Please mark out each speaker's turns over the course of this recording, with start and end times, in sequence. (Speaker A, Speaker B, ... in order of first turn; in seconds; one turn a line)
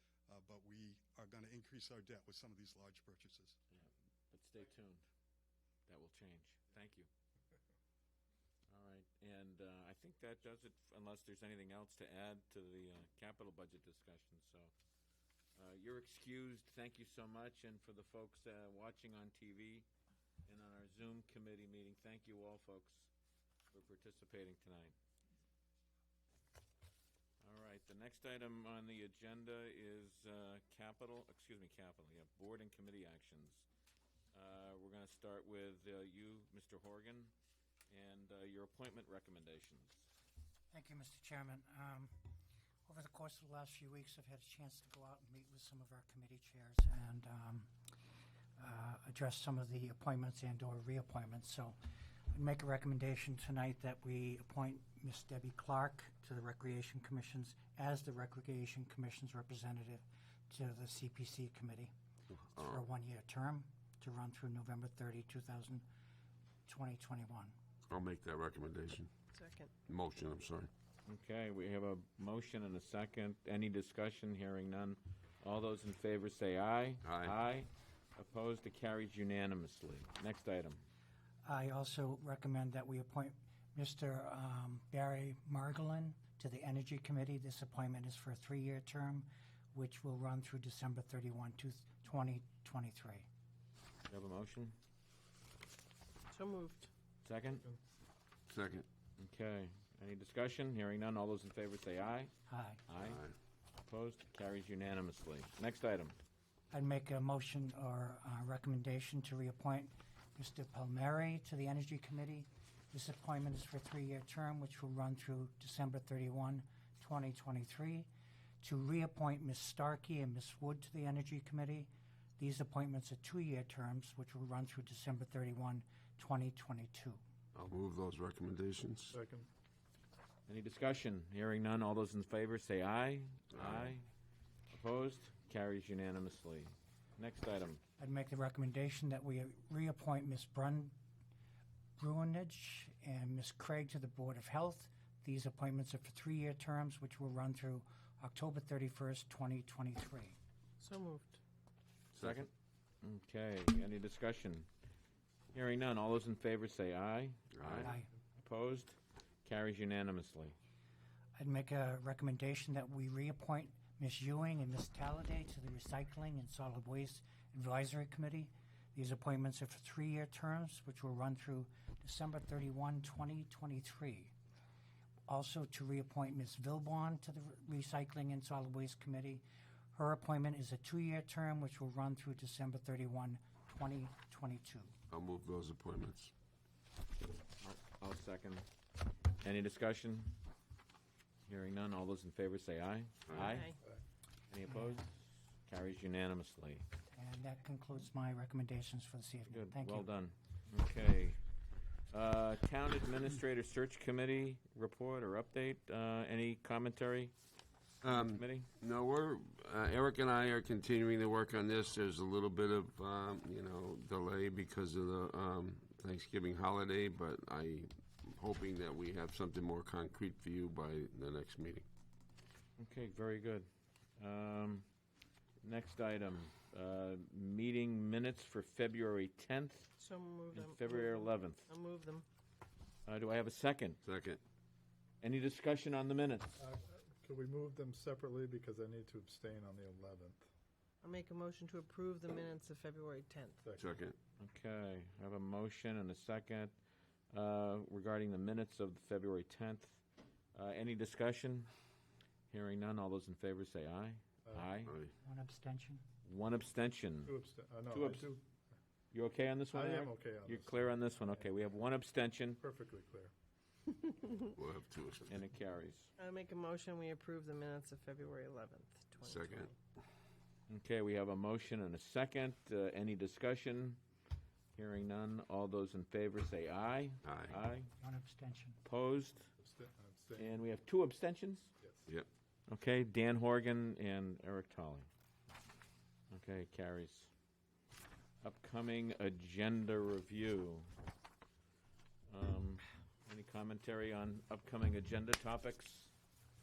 Speaker A: 0.3-3.6
Speaker B: 3.7-5.0
Speaker B: 5.9-7.1
Speaker B: 8.7-14.7
Speaker B: 15.6-19.9
Speaker B: 20.4-23.1
Speaker B: 23.7-24.9
Speaker B: 27.4-33.6
Speaker B: 34.3-37.3
Speaker B: 37.9-40.0
Speaker C: 40.7-42.1
Speaker C: 42.9-47.7
Speaker C: 48.6-51.8
Speaker C: 52.3-61.9
Speaker D: 62.5-62.8
Speaker C: 62.5-65.8
Speaker C: 66.7-67.5
Speaker D: 67.9-69.1
Speaker E: 69.3-69.7
Speaker D: 69.8-70.7
Speaker B: 71.1-80.8
Speaker D: 77.0-77.3
Speaker C: 81.4-93.3
Speaker B: 94.1-94.7
Speaker E: 96.3-96.9
Speaker B: 97.2-97.6
Speaker D: 98.5-98.8
Speaker B: 99.2-102.3
Speaker C: 102.5-102.8
Speaker B: 102.9-103.2
Speaker D: 103.0-103.3
Speaker B: 103.8-106.2
Speaker C: 106.7-118.1
Speaker C: 118.6-127.2
Speaker D: 127.5-129.2
Speaker F: 129.1-129.5
Speaker B: 130.5-134.1
Speaker D: 133.5-133.9
Speaker B: 134.7-137.8
Speaker C: 138.0-140.9
Speaker C: 142.0-150.3
Speaker E: 150.8-151.4
Speaker B: 152.1-152.5
Speaker B: 153.0-154.7
Speaker B: 155.5-160.5
Speaker D: 157.6-157.9
Speaker C: 161.4-174.3
Speaker C: 175.3-184.9
Speaker D: 185.1-186.3
Speaker B: 187.6-188.7
Speaker B: 189.4-190.3
Speaker B: 191.4-193.8
Speaker D: 193.3-193.6
Speaker B: 194.5-196.8
Speaker C: 197.1-200.1
Speaker B: 199.5-201.4
Speaker B: 202.1-207.3
Speaker D: 208.0-221.8
Speaker B: 208.0-208.7
Speaker B: 222.8-223.7
Speaker B: 224.2-224.8
Speaker B: 225.6-229.9
Speaker E: 230.0-232.2
Speaker B: 230.5-231.7
Speaker B: 233.1-234.0
Speaker D: 234.0-234.4
Speaker B: 235.2-236.6
Speaker F: 236.6-240.4
Speaker E: 241.0-243.6
Speaker F: 243.6-243.9
Speaker D: 243.8-244.2
Speaker B: 244.4-246.7
Speaker B: 247.3-250.0
Speaker B: 250.5-251.7
Speaker B: 252.5-254.9
Speaker F: 254.4-254.7
Speaker C: 255.2-256.0
Speaker B: 256.2-257.4
Speaker F: 257.2-258.4
Speaker B: 257.9-258.4
Speaker B: 259.1-262.6
Speaker F: 259.7-261.7
Speaker F: 262.6-263.3
Speaker D: 264.5-265.4
Speaker B: 265.3-266.1
Speaker E: 266.2-269.6
Speaker D: 269.2-269.7
Speaker B: 270.7-274.0
Speaker B: 274.7-277.9
Speaker D: 277.2-277.6
Speaker C: 278.0-278.8
Speaker B: 278.8-279.5
Speaker F: 279.6-280.6
Speaker B: 280.4-281.7
Speaker F: 281.8-282.1
Speaker B: 282.7-285.1
Speaker B: 286.3-287.3
Speaker B: 288.4-290.9
Speaker B: 292.3-296.1